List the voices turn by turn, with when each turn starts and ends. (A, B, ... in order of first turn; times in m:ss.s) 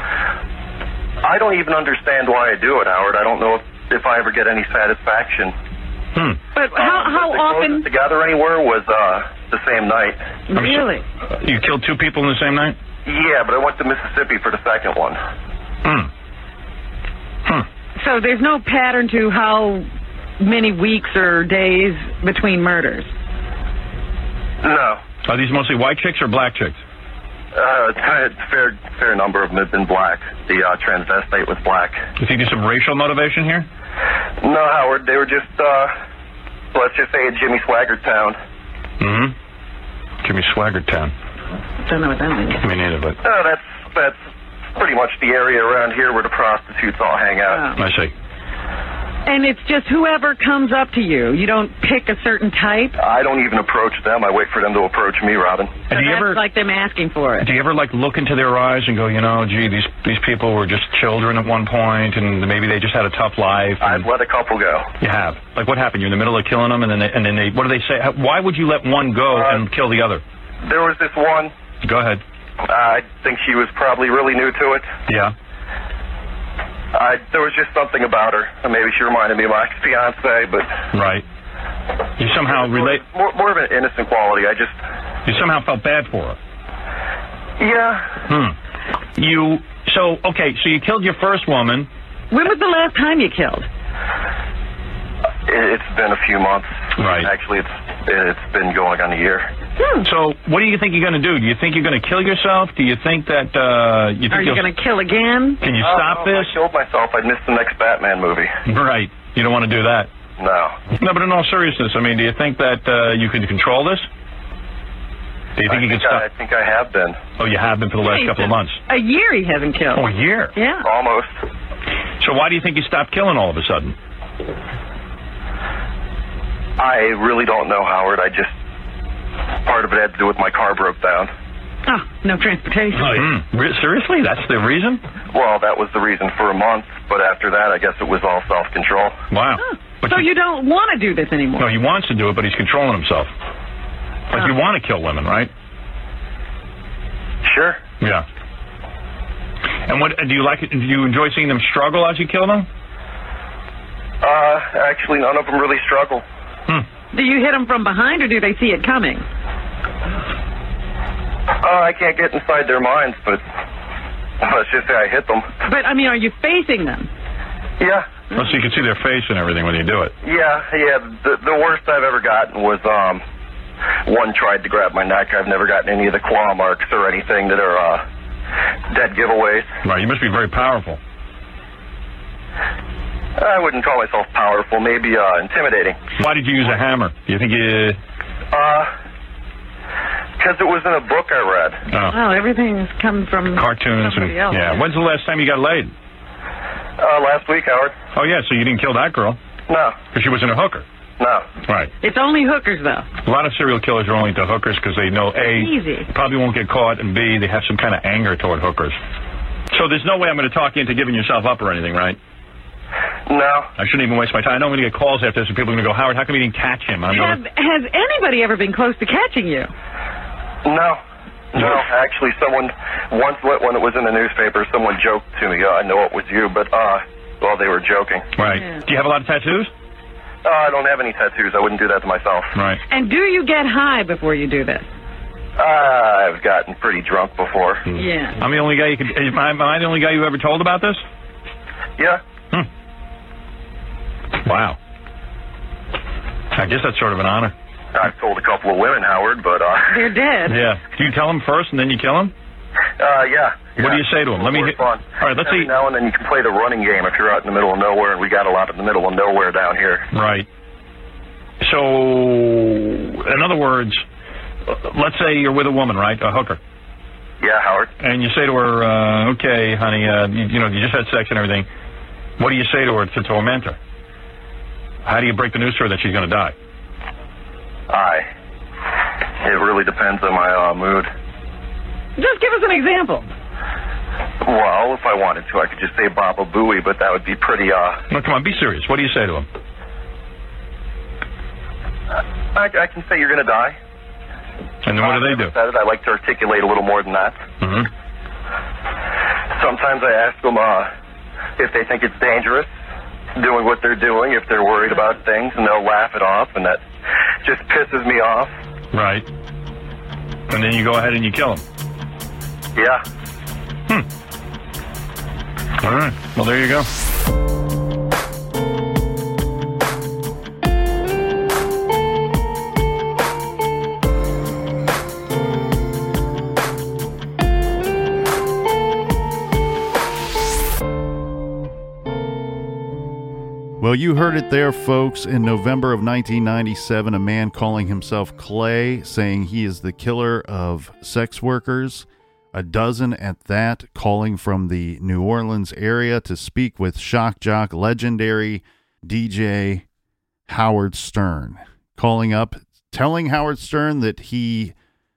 0:01.2-0:05.5 A
0:06.6-0:07.9 B
0:06.7-0:10.2 A
0:10.5-0:11.0 B
0:10.5-0:12.8 C
0:13.1-0:15.2 A
0:15.8-0:16.1 C
0:18.0-0:19.9 B
0:20.4-0:23.1 B
0:24.6-0:25.0 A
0:25.2-0:26.8 C
0:27.6-0:32.0 A
0:32.2-0:33.7 C
0:34.4-0:35.9 A
0:36.7-0:38.4 A
0:39.0-0:39.4 C
0:40.2-0:41.1 C
0:41.8-0:42.6 B
0:42.6-0:43.2 C
0:43.2-0:44.2 A
0:44.8-0:47.7 A
0:47.5-0:47.8 B
0:47.8-0:48.1 C
0:49.3-0:53.0 B
0:53.0-0:55.8 A
0:55.9-0:56.4 C
0:55.9-0:57.5 B
0:57.4-1:04.1 C
1:03.8-1:04.9 A
1:05.0-1:10.2 C
1:09.3-1:09.6 A
1:10.6-1:11.5 A
1:11.8-1:12.2 C
1:12.6-1:14.9 A
1:15.1-1:15.3 C
1:16.9-1:20.7 A
1:20.9-1:21.2 C
1:22.2-1:23.0 C
1:22.5-1:24.7 A
1:25.2-1:26.4 C
1:27.6-1:28.1 A
1:28.3-1:28.6 C
1:29.2-1:31.9 C
1:32.3-1:33.7 B
1:35.5-1:39.5 A
1:37.0-1:37.3 C
1:39.8-1:40.1 B
1:40.0-1:44.7 C
1:44.3-1:45.6 B
1:45.6-1:46.6 C
1:45.8-1:48.5 A
1:48.7-1:50.1 C
1:50.4-1:50.8 A
1:50.9-1:54.1 C
1:55.6-1:56.2 C
1:55.7-1:57.2 A
1:57.4-1:58.8 C
1:58.0-2:00.8 B
2:00.0-2:00.5 C
2:00.8-2:01.3 A
2:02.2-2:04.0 C
2:06.8-2:08.5 A
2:09.6-2:11.3 A
2:11.9-2:13.3 B
2:13.0-2:15.0 C
2:15.3-2:19.2 A
2:19.3-2:20.3 C
2:19.6-2:21.7 B
2:21.6-2:23.3 C
2:24.3-2:25.5 C
2:27.4-2:27.8 A
2:28.0-2:28.3 C
2:29.9-2:32.7 C
2:34.2-2:36.2 A
2:37.1-2:39.2 B
2:41.6-2:43.4 A
2:44.4-2:45.5 A
2:45.6-2:47.1 B
2:47.8-2:48.1 A
2:48.3-2:50.1 C
2:50.2-2:53.2 A
2:54.1-2:58.0 A
2:58.9-2:59.7 A
2:59.8-3:01.0 C
3:03.4-3:06.0 A
3:06.2-3:08.0 C
3:08.5-3:08.9 A
3:10.4-3:11.8 A
3:11.9-3:12.2 C
3:12.1-3:14.9 B
3:13.5-3:15.9 C
3:17.0-3:18.0 A
3:18.1-3:19.4 C
3:19.7-3:20.0 A
3:20.1-3:20.9 C
3:21.2-3:21.5 A
3:22.0-3:23.1 B
3:23.2-3:29.0 C
3:25.4-3:26.1 B
3:29.7-3:32.2 C
3:33.3-3:33.7 A
3:33.8-3:37.4 C
3:37.1-3:39.7 B
3:40.6-3:41.0 A
3:41.5-3:48.3 A
3:41.6-3:41.8 C
3:48.4-3:49.7 C
3:50.4-3:52.5 A
3:52.6-3:52.8 C
3:52.9-3:54.9 B
3:55.6-3:57.9 A
3:57.9-4:01.0 C
3:58.0-3:58.4 B
4:04.4-4:04.8 C
4:06.5-4:07.5 C
4:07.9-4:10.1 A
4:09.9-4:10.6 B
4:10.5-4:12.3 C
4:13.0-4:20.1 A
4:13.8-4:15.7 C
4:20.1-4:20.5 C
4:21.6-4:24.0 C
4:24.7-4:26.6 C
4:27.4-4:27.9 A
4:28.0-4:31.7 C
4:32.4-4:33.8 C
4:35.0-4:36.6 C
4:37.9-4:38.3 A
4:39.4-4:41.1 A
4:42.2-4:43.3 B
4:44.4-4:48.0 A
4:48.1-4:49.5 C
4:52.5-4:53.8 A
4:54.8-4:55.5 C
4:55.0-4:57.4 A
4:57.6-4:57.9 C
4:59.5-5:00.9 A
5:01.6-5:02.7 A
5:03.4-5:06.8 A
5:07.4-5:08.5 A
5:08.9-5:09.3 C
5:10.5-5:11.6 C
5:12.8-5:13.0 A
5:15.8-5:16.9 C
5:33.8-5:49.8 D
5:50.5-5:54.7 D